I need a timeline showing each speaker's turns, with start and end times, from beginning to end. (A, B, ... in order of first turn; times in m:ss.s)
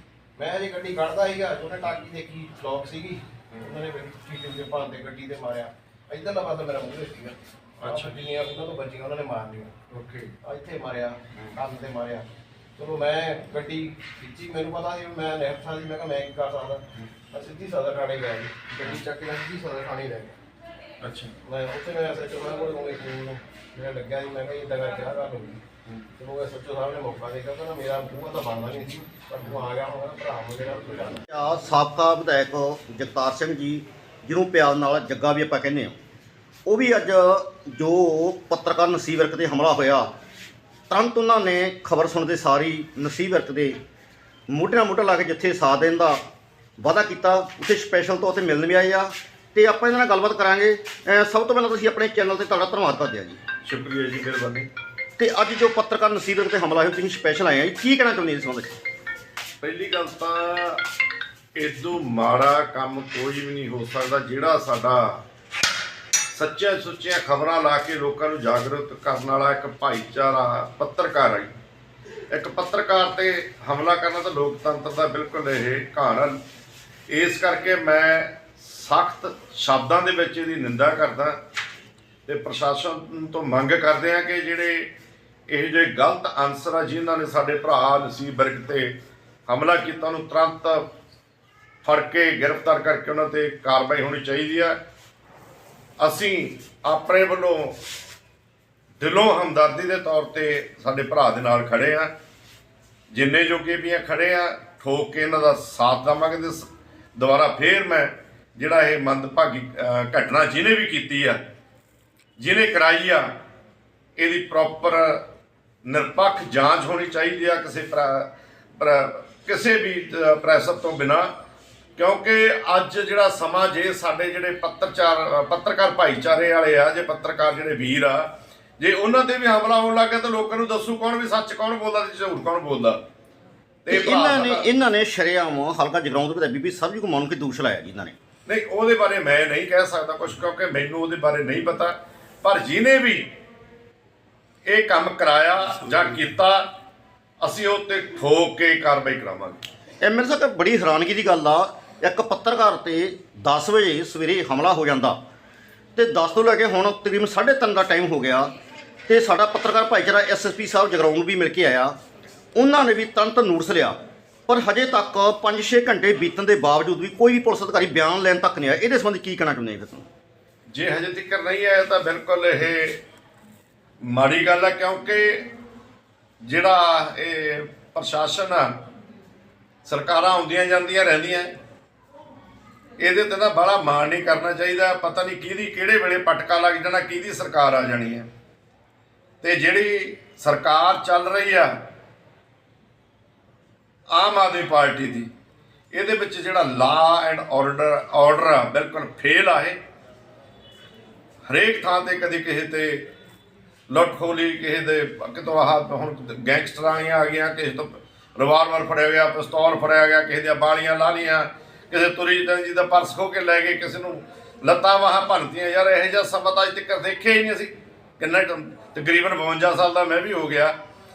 0:00.4-0:09.7 A
0:09.9-0:10.3 B
0:10.4-0:20.4 A
0:21.0-0:21.3 B
0:21.4-0:25.6 A
0:26.2-0:31.2 A
0:31.3-0:36.0 C
0:36.6-0:40.1 C
0:40.9-0:43.8 C
0:44.5-0:46.2 C
0:46.8-0:53.4 C
0:53.6-0:54.7 B
0:55.2-0:58.7 C
0:59.6-1:00.8 B
1:01.5-1:05.2 B
1:06.3-1:11.5 B
1:12.3-1:16.4 B
1:17.1-1:21.4 B
1:22.2-1:24.9 B
1:25.5-1:29.0 B
1:29.5-1:30.9 B
1:31.8-1:34.8 B
1:36.0-1:37.8 B
1:39.0-1:42.1 B
1:43.1-1:51.4 B
1:52.4-1:53.3 B
1:54.2-1:55.2 B
1:55.8-2:01.3 B
2:02.0-2:13.0 B
2:13.8-2:14.6 B
2:13.9-2:18.2 C
2:18.4-2:23.3 B
2:24.6-2:26.7 B
2:27.4-2:29.6 B
2:30.0-2:35.2 C
2:36.0-2:38.5 C
2:39.1-2:41.9 C
2:42.5-2:50.0 C
2:50.7-2:53.0 B
2:54.0-2:55.5 B
2:56.4-2:58.7 B
2:59.8-3:01.6 B
3:03.0-3:08.3 B
3:09.4-3:11.8 B
3:14.1-3:15.3 B
3:15.9-3:19.8 B
3:21.5-3:23.1 B
3:23.9-3:40.8 B